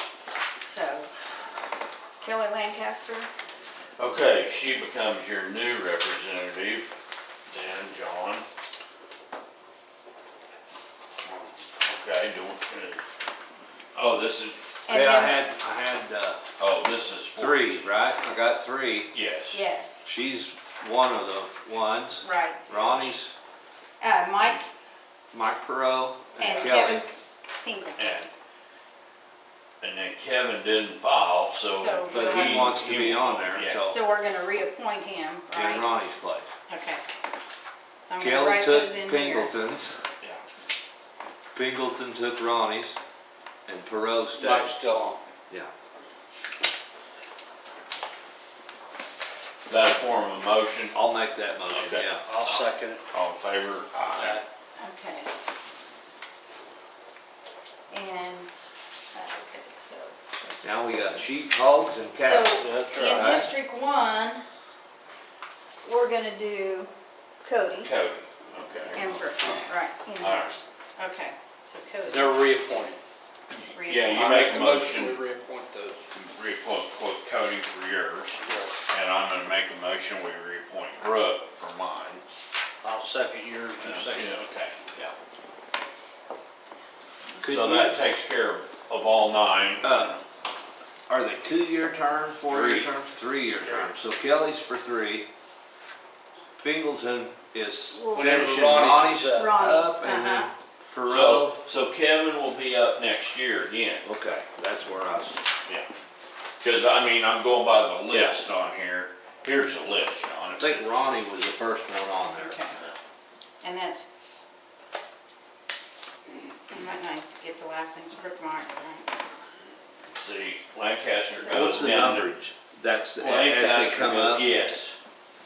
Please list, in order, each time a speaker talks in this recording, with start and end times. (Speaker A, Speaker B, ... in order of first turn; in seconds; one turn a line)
Speaker A: 0.7-1.1
Speaker A: 2.2-3.3
Speaker B: 4.0-6.9
Speaker B: 7.5-8.4
Speaker B: 11.8-13.0
Speaker B: 13.9-14.6
Speaker A: 14.9-15.4
Speaker C: 14.9-16.4
Speaker B: 16.6-17.8
Speaker C: 17.4-19.1
Speaker B: 19.1-19.6
Speaker A: 19.5-20.1
Speaker C: 20.0-23.3
Speaker A: 22.2-22.7
Speaker B: 22.7-23.0
Speaker A: 24.0-24.7
Speaker C: 25.3-27.0
Speaker A: 26.4-28.3
Speaker B: 28.0-28.3
Speaker B: 29.8-33.9
Speaker A: 31.7-33.1
Speaker C: 32.1-34.0
Speaker A: 33.8-35.9
Speaker C: 35.5-36.5
Speaker A: 36.7-37.0
Speaker A: 38.0-39.5
Speaker C: 38.2-40.0
Speaker C: 41.5-43.0
Speaker C: 43.6-44.7
Speaker D: 44.4-45.2
Speaker B: 49.7-51.0
Speaker C: 50.9-52.2
Speaker B: 51.7-54.4
Speaker D: 52.2-53.0
Speaker D: 54.1-54.4
Speaker A: 54.8-55.3
Speaker A: 57.9-58.5
Speaker A: 59.1-61.2
Speaker C: 60.6-63.5
Speaker A: 62.2-64.4
Speaker D: 62.6-63.3
Speaker A: 65.8-66.9
Speaker A: 67.4-67.9
Speaker B: 67.8-69.6
Speaker A: 68.9-72.3
Speaker B: 70.2-70.5
Speaker D: 72.0-73.0
Speaker B: 73.5-75.2
Speaker A: 73.7-74.5
Speaker D: 74.1-76.0
Speaker B: 76.1-82.2
Speaker D: 78.4-78.7
Speaker D: 82.8-84.3
Speaker B: 83.8-85.1
Speaker B: 87.3-90.2
Speaker C: 87.4-88.0
Speaker C: 89.8-90.1
Speaker C: 91.1-95.3
Speaker B: 92.5-92.9
Speaker B: 93.6-93.9
Speaker C: 96.6-101.6
Speaker A: 97.9-98.4
Speaker D: 98.1-99.6
Speaker A: 99.3-100.5
Speaker B: 101.0-104.0
Speaker C: 104.0-105.4
Speaker B: 106.6-111.0
Speaker C: 108.1-108.4
Speaker C: 110.6-112.6
Speaker A: 112.2-112.8
Speaker A: 113.6-114.1
Speaker A: 116.7-119.2
Speaker B: 120.1-122.4
Speaker C: 121.5-124.5
Speaker B: 123.2-125.0